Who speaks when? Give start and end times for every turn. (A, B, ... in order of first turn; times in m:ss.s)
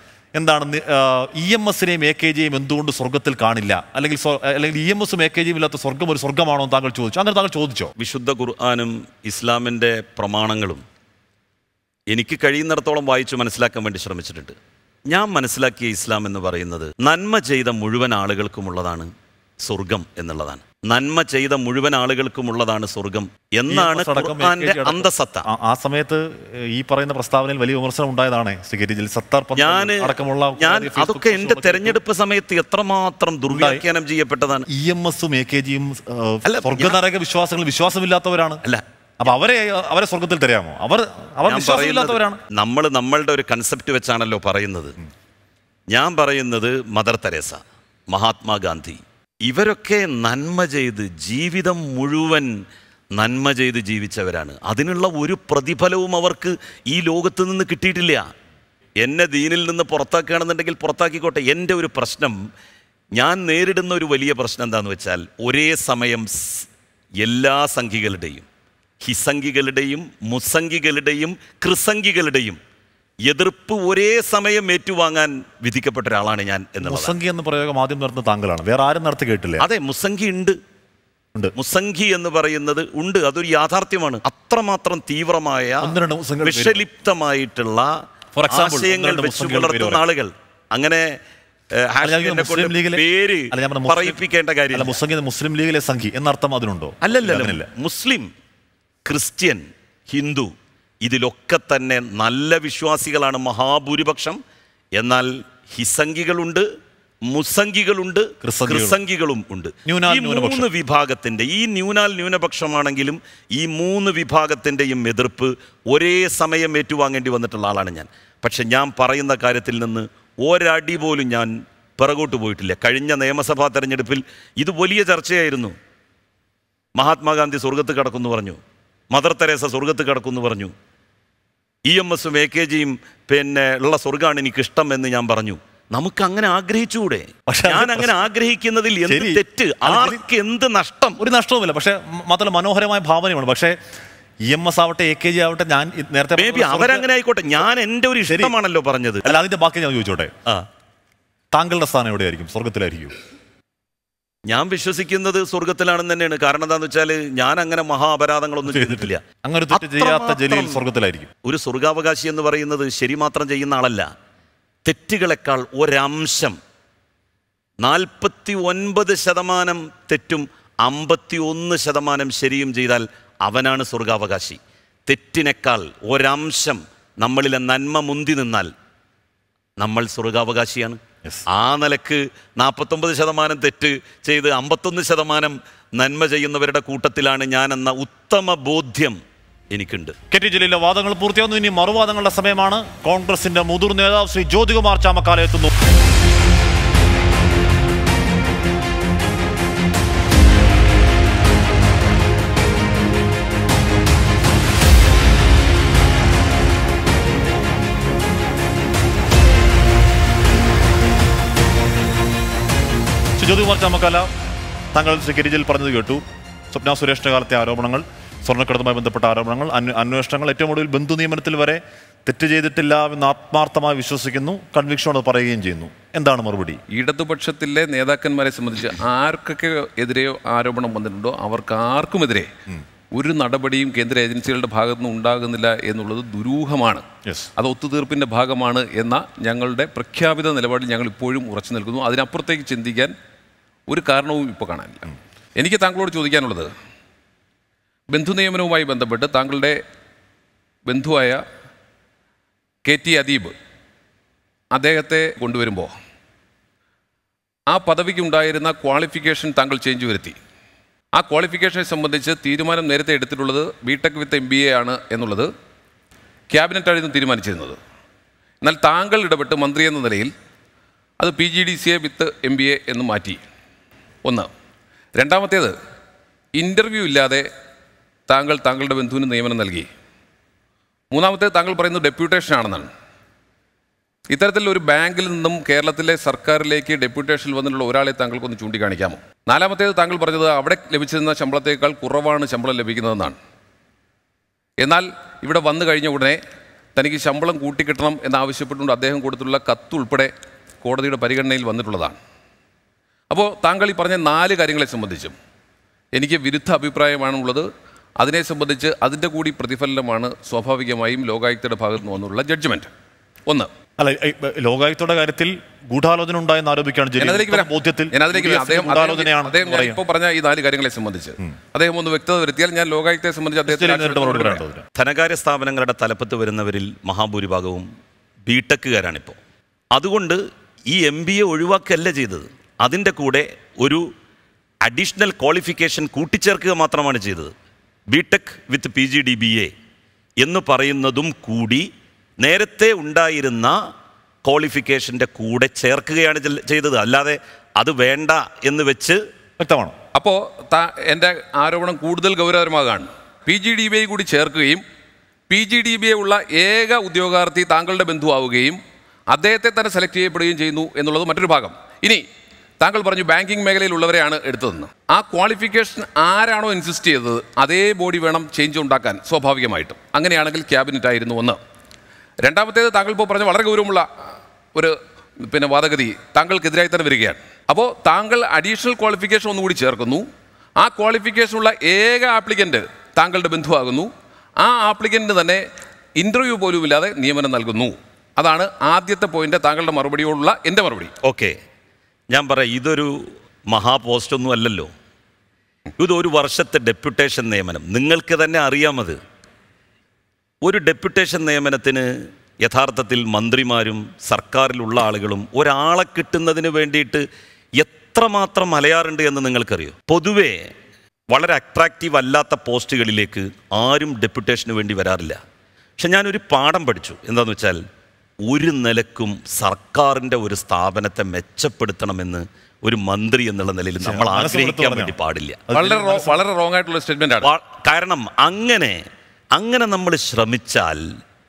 0:00.4-0:07.9 A
0:08.0-0:10.8 B
0:12.1-0:14.6 B
0:15.1-0:19.1 B
0:19.6-0:25.4 B
0:23.7-0:32.0 A
0:29.6-0:34.6 B
0:33.5-0:33.8 A
0:34.7-0:38.6 A
0:36.4-0:37.0 B
0:39.2-0:42.4 A
0:41.5-0:44.9 B
0:45.9-0:52.5 B
0:53.2-0:58.3 B
0:59.0-1:02.4 B
1:03.2-1:06.7 B
1:07.2-1:08.4 B
1:09.0-1:12.6 B
1:13.2-1:17.2 B
1:16.8-1:19.6 A
1:19.6-1:20.6 B
1:21.6-1:25.9 B
1:25.8-1:26.8 A
1:26.4-1:27.9 B
1:28.4-1:30.0 A
1:28.5-1:31.1 B
1:31.8-1:34.9 B
1:32.0-1:34.2 A
1:34.7-1:37.7 A
1:37.0-1:38.3 B
1:39.0-1:40.5 B
1:41.0-1:44.4 B
1:45.0-1:46.6 B
1:47.3-2:05.7 B
1:48.4-1:49.0 A
1:49.8-1:50.7 A
2:07.0-2:08.6 B
2:09.1-2:10.7 B
2:11.9-2:21.2 B
2:17.5-2:18.1 A
2:19.1-2:20.2 A
2:21.2-2:23.8 A
2:24.4-2:27.0 A
2:26.3-2:29.4 B
2:28.3-2:28.5 A
2:29.2-2:30.3 A
2:31.5-2:33.1 A
2:34.5-2:39.2 B
2:38.6-2:41.3 A
2:39.7-2:40.8 B
2:41.4-2:44.1 B
2:44.8-2:46.6 B
2:47.8-2:58.7 B
2:59.8-3:09.2 B
3:09.7-3:10.2 B
3:10.3-3:15.7 A
3:33.4-3:34.3 A
3:34.9-3:46.8 A
3:46.9-3:52.5 C
3:53.1-3:57.0 C
3:57.6-4:03.1 C
4:03.9-4:06.7 C
4:08.1-4:09.8 C
4:10.9-4:11.4 C
4:12.8-4:13.5 C
4:14.7-4:15.9 C
4:17.7-4:20.4 C
4:21.2-4:25.5 C
4:26.5-4:27.8 C
4:28.6-4:30.3 C
4:31.2-4:33.4 C
4:35.2-4:35.7 C
4:36.6-4:37.4 C
4:38.3-4:39.9 C
4:41.1-4:42.9 C
4:44.3-4:53.4 C
4:54.8-4:56.4 C
4:57.0-5:00.3 C
5:00.8-5:02.2 C
5:03.3-5:05.3 C
5:06.1-5:07.7 C
5:08.2-5:12.9 C
5:14.0-5:20.0 A
5:17.2-5:24.6 C
5:23.7-5:24.8 A
5:25.0-5:27.9 B
5:28.4-5:29.4 B
5:29.9-5:34.0 B
5:34.8-5:37.5 B
5:38.1-5:39.7 B
5:40.4-5:41.9 B
5:42.4-5:43.8 B
5:44.4-5:49.2 B
5:49.6-5:50.0 A
5:50.1-5:54.8 C
5:55.5-6:02.2 C
6:02.8-6:11.6 C
6:12.4-6:14.1 C
6:14.7-6:20.2 C
6:20.8-6:25.6 C
6:26.2-6:31.1 C
6:31.2-6:31.6 B
6:32.3-6:34.9 B
6:36.0-6:39.2 B
6:40.6-6:42.1 B
6:42.6-6:47.2 B
6:47.8-6:50.7 B
6:51.3-6:55.4 B
6:56.0-6:57.8 B
6:58.4-7:05.6 B
7:04.0-7:05.1 A
7:05.7-7:06.4 A
7:05.7-7:07.5 C
7:07.4-7:09.0 B
7:09.5-7:11.1 B